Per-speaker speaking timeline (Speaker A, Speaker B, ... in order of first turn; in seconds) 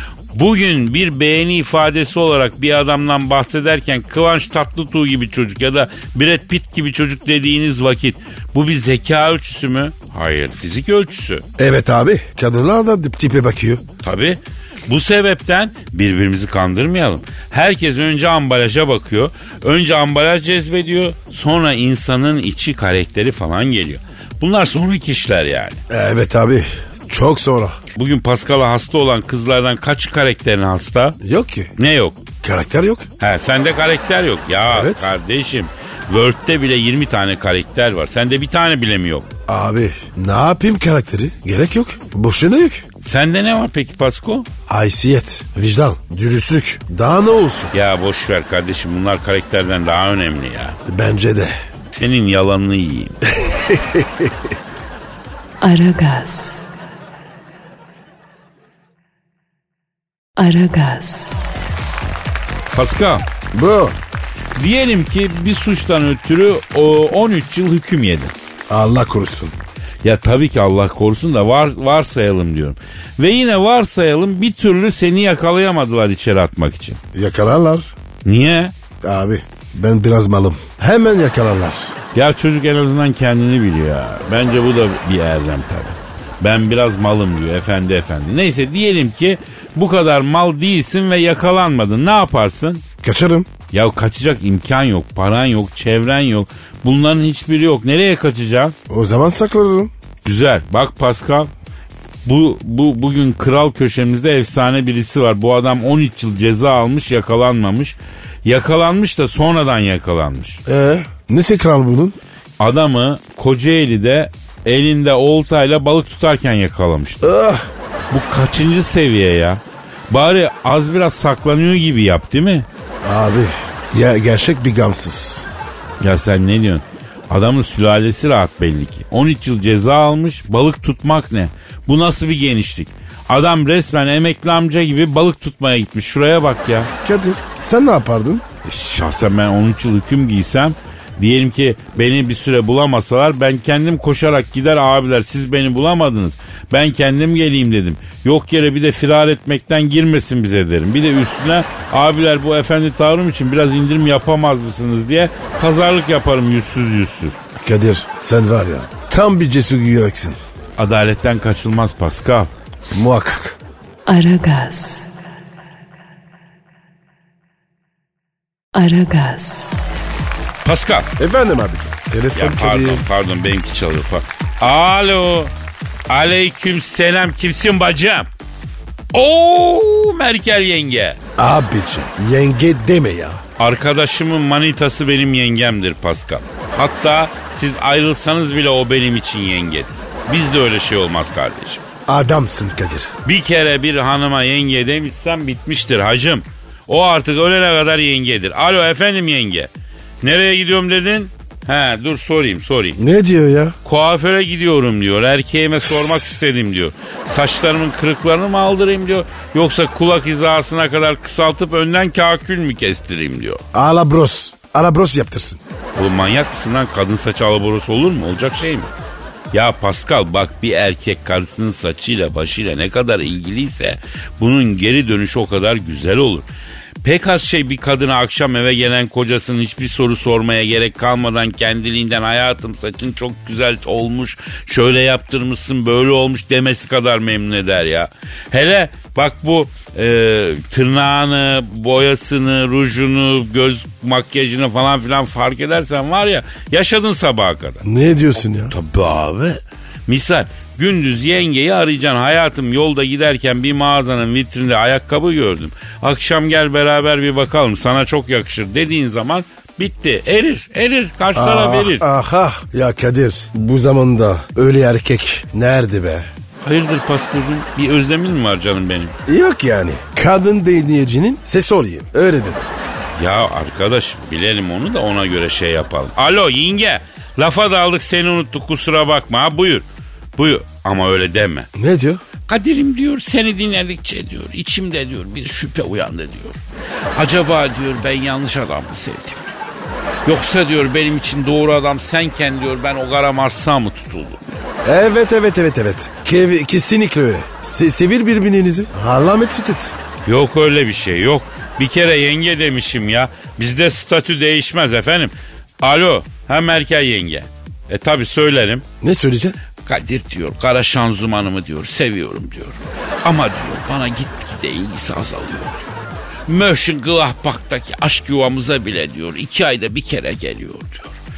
Speaker A: 0.3-11.4, 14.0-25.8, 27.9-31.2, 31.8-32.2, 33.2-39.3, 43.0-44.5, 47.7-50.8, 51.9-53.2, 62.7-63.3, 64.5-68.3, 70.0-77.0, 78.2-78.7, 82.1-92.8, 93.7-98.7, 100.2-101.5, 102.2-110.6, 112.6-117.3, 118.1-122.7, 126.0-136.9, 138.6-157.4, 160.8-162.5, 170.6-171.1, 172.3-175.5, 176.1-178.3, 179.1-181.2, 183.6-191.8, 193.2-199.7, 200.2-203.0, 203.8-213.6, 215.9-218.9, 219.5-226.5, 227.0-247.8, 248.7-262.1, 266.6-269.1, 273.2-279.8, 280.4-281.7, 282.5-286.6, 287.1-289.5, 290.2-294.4, 300.2-308.8, 309.8-315.9, 316.5-321.1
Speaker B: 11.6-13.8, 25.9-27.8, 31.2-31.7, 32.4-33.1, 34.7-35.1, 39.5-42.9, 44.7-47.7, 50.9-51.5, 53.3-54.4, 63.5-64.0, 68.7-69.5, 77.1-77.9, 79.0-81.9, 93.0-93.5, 98.9-99.9, 110.7-112.2, 117.2-117.7, 123.0-125.5, 137.0-138.4, 157.6-160.4, 162.9-163.6, 171.2-173.0, 181.4-183.4, 192.1-193.1, 203.0-203.8, 213.7-215.6, 247.8-248.7, 261.3-266.3, 269.3-272.7, 281.7-282.2, 294.8-299.9, 309.0-309.6
Speaker C: 55.6-56.6, 60.4-61.4, 164.1-165.1, 168.7-169.8